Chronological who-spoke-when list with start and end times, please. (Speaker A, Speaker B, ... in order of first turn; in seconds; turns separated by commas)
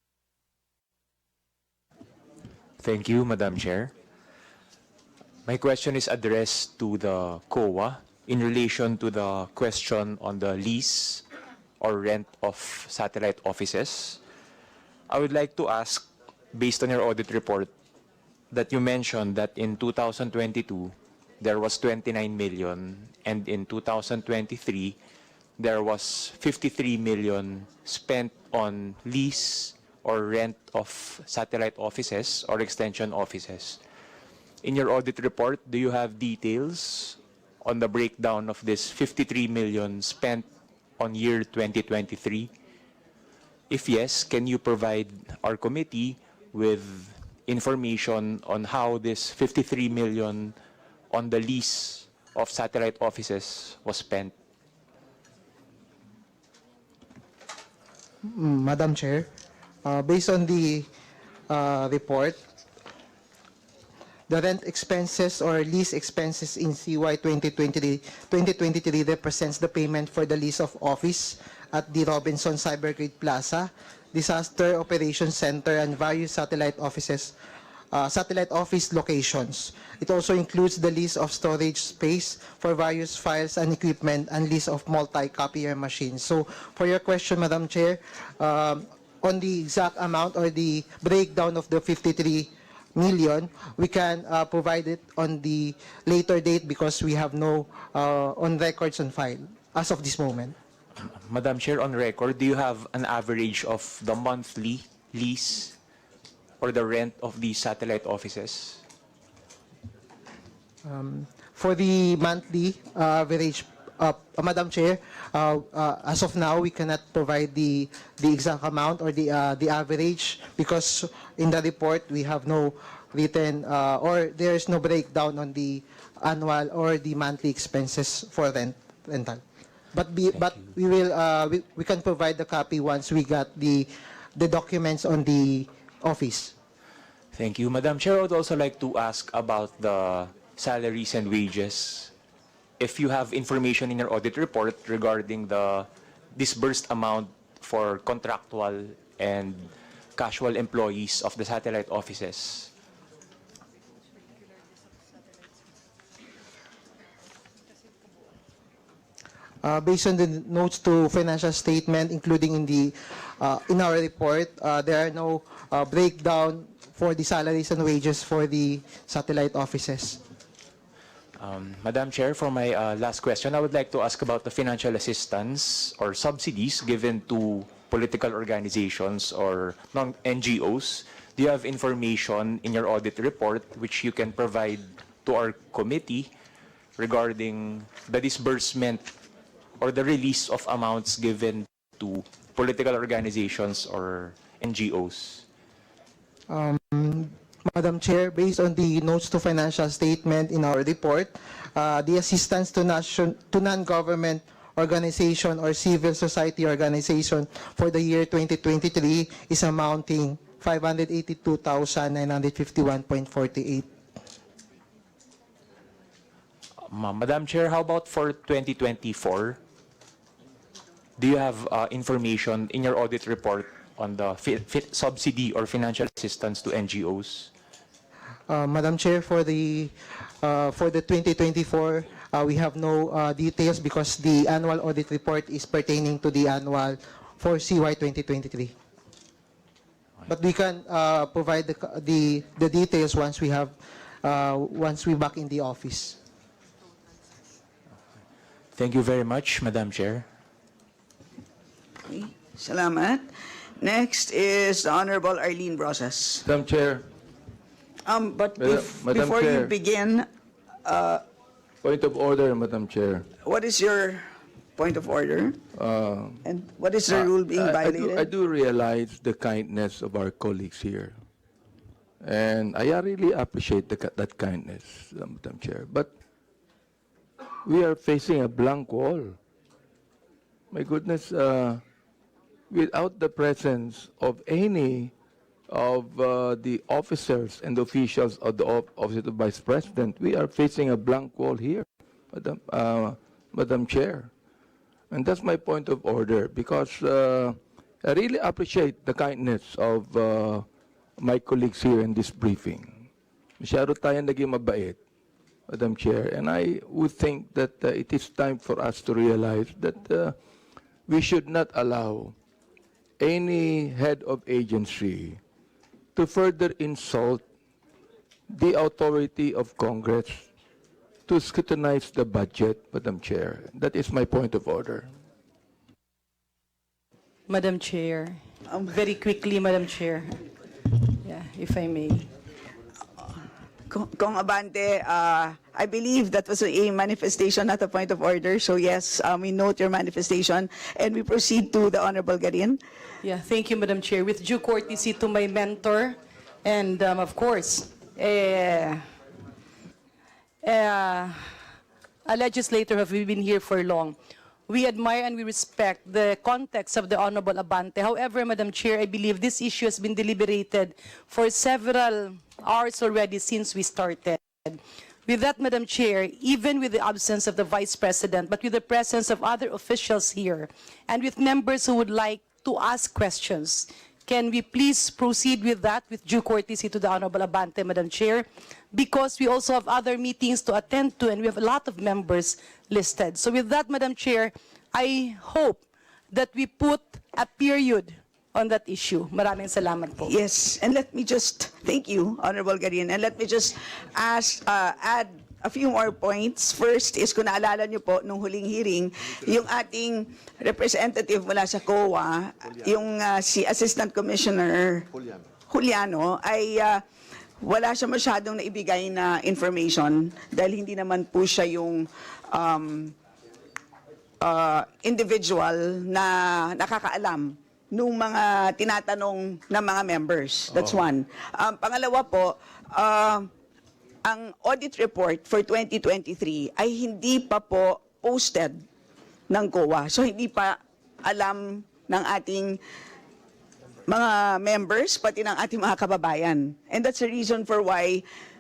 Speaker A: 2.8-3.9, Speaker A: 5.5-11.2, Speaker A: 11.8-14.2, Speaker A: 15.1-17.7, Speaker A: 18.5-25.0, Speaker A: 25.6-33.8, Speaker A: 34.6-40.5, Speaker A: 41.0-42.5, Speaker A: 43.7-50.5, Speaker A: 51.1-54.3, Speaker B: 58.3-59.3, Speaker B: 59.9-60.9, Speaker B: 61.5-62.4, Speaker B: 64.3-77.3, Speaker B: 77.9-100.5, Speaker A: 101.0-105.7, Speaker A: 106.6-108.8, Speaker B: 110.8-129.4, Speaker B: 129.9-136.5, Speaker A: 137.3-142.1, Speaker A: 142.8-152.7, Speaker B: 159.6-170.2, Speaker A: 171.4-186.3, Speaker A: 187.0-189.2, Speaker A: 189.8-195.4, Speaker B: 196.5-213.9, Speaker A: 216.8-219.6, Speaker A: 221.2-227.5, Speaker B: 228.5-238.7, Speaker B: 240.3-246.2, Speaker A: 248.8-250.3, Speaker C: 252.1-253.3, Speaker C: 253.8-256.4, Speaker D: 256.4-257.0, Speaker C: 258.1-260.3, Speaker D: 258.6-259.7, Speaker C: 260.9-261.2, Speaker D: 261.8-263.3, Speaker C: 263.4-264.2, Speaker C: 264.8-265.6, Speaker D: 265.8-266.4, Speaker C: 266.4-268.3, Speaker D: 267.1-271.2, Speaker D: 272.2-276.1, Speaker D: 277.6-279.4, Speaker D: 280.7-281.8, Speaker D: 282.7-285.1, Speaker D: 285.7-294.3, Speaker D: 295.1-300.7, Speaker D: 301.2-303.1, Speaker D: 303.6-305.0, Speaker D: 305.7-310.4, Speaker D: 311.1-312.4, Speaker D: 313.2-315.4, Speaker D: 316.2-317.4, Speaker D: 318.5-320.5, Speaker D: 321.3-325.1, Speaker E: 327.5-330.4, Speaker C: 328.7-328.9, Speaker E: 331.0-332.3, Speaker C: 333.9-342.8, Speaker E: 343.2-349.0, Speaker E: 350.6-351.4, Speaker E: 352.3-354.2, Speaker E: 354.7-390.3, Speaker C: 390.2-405.1, Speaker C: 405.7-407.0, Speaker C: 407.6-413.1, Speaker C: 414.4-423.5, Speaker D: 420.7-421.1, Speaker C: 424.3-428.8, Speaker C: 429.5-432.8, Speaker C: 434.1-438.2